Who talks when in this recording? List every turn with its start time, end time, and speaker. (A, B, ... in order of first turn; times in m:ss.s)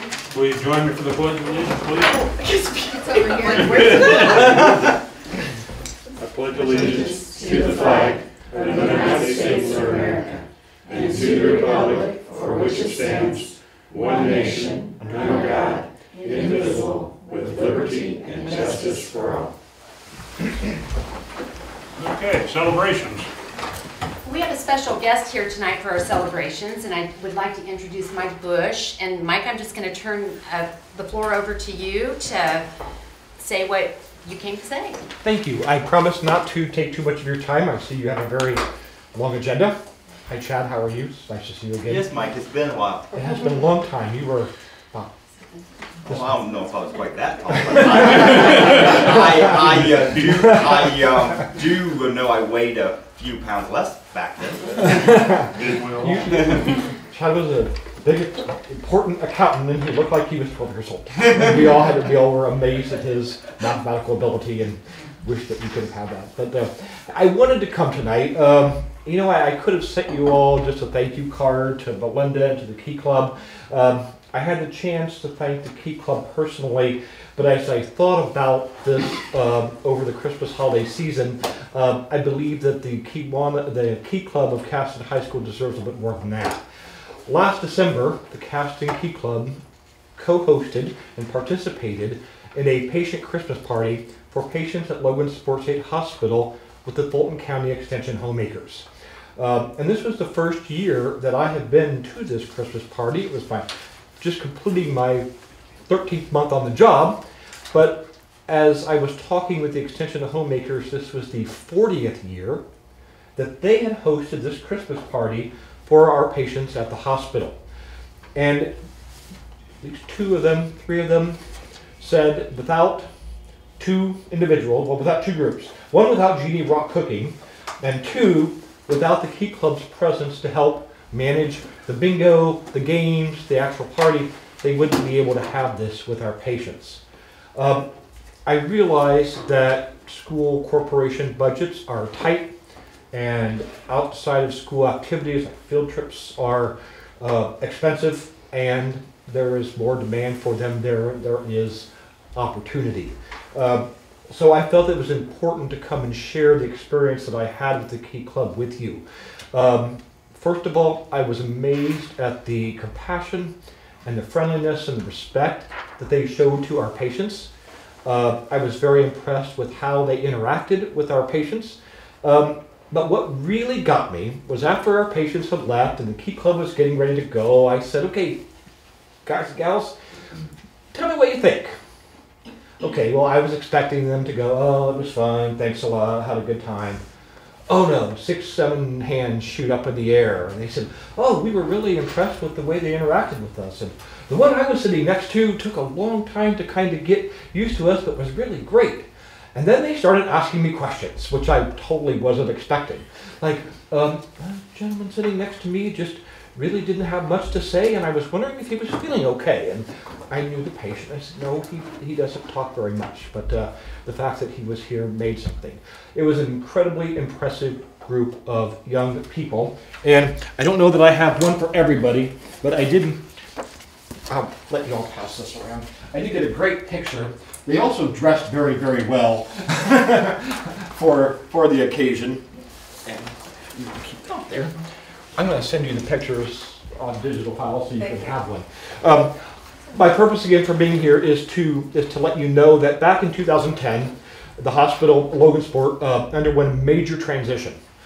0:00.3-0:05.0 A
0:02.8-0:04.6 B
0:06.2-0:19.5 A
0:10.0-0:10.3 B
0:15.0-0:15.3 C
0:22.0-0:23.3 A
0:24.2-0:32.7 B
0:33.4-0:35.1 B
0:35.2-0:42.1 C
0:41.8-0:43.2 D
0:43.1-0:45.1 C
0:46.0-0:46.4 C
0:46.0-0:55.0 D
0:47.8-0:48.3 C
0:49.4-0:51.3 C
0:54.7-0:56.8 A
0:54.8-1:26.6 C
1:27.2-1:29.6 C
1:30.2-1:45.3 C
1:45.8-1:52.6 C
1:53.3-1:57.6 C
1:58.3-1:58.7 C
1:59.8-2:01.4 C
2:02.0-2:03.1 C
2:03.8-2:17.0 C
2:17.5-2:17.9 C
2:18.4-2:22.5 C
2:23.1-2:47.5 C
2:48.0-2:58.4 C
2:59.2-2:59.9 C
3:00.9-3:01.8 C
3:02.8-3:07.0 C
3:07.7-3:43.2 C
3:44.3-3:52.5 C
3:53.0-4:07.8 C